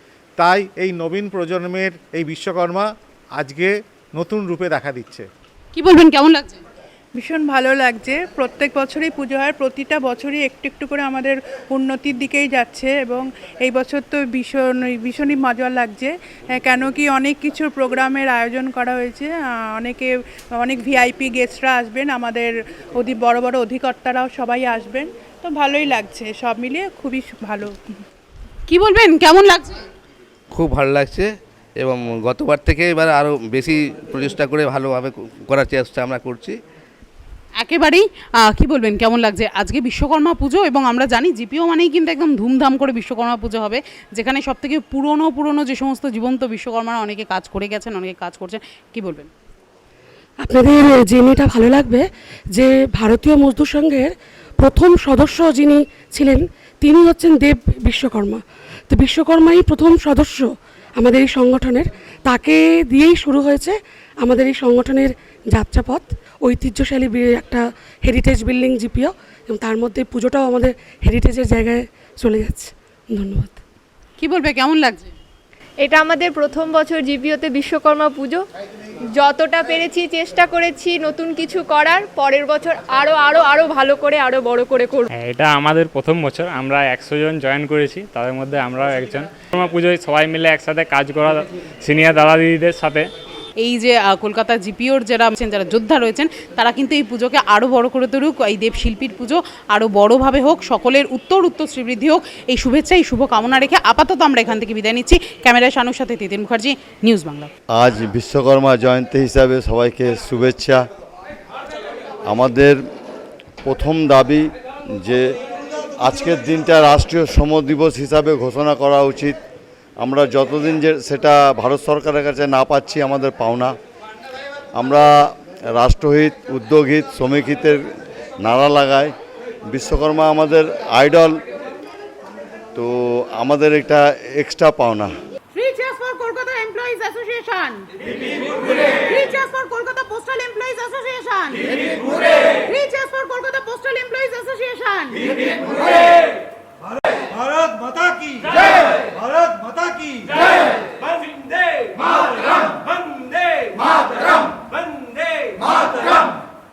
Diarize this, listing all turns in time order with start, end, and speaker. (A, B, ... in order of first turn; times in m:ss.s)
0:00.4-0:05.3 A
0:05.7-0:06.6 B
0:07.2-0:27.8 C
0:28.7-0:29.8 B
0:30.5-0:36.6 D
0:37.6-0:49.3 B
0:50.4-1:13.6 E
1:14.2-1:15.0 B
1:15.8-1:18.4 F
1:19.1-1:25.1 F
1:25.1-1:33.1 G
1:33.6-1:47.5 B
1:47.7-1:50.9 H
1:52.3-1:52.8 H
1:53.6-1:55.3 H
1:56.0-1:59.4 H
2:00.0-2:03.7 H
2:04.7-2:07.8 H
2:08.4-2:09.1 H
2:09.7-2:11.4 H
2:12.7-2:15.1 H
2:15.7-2:17.5 B
2:19.1-2:21.4 B
2:22.7-2:25.0 B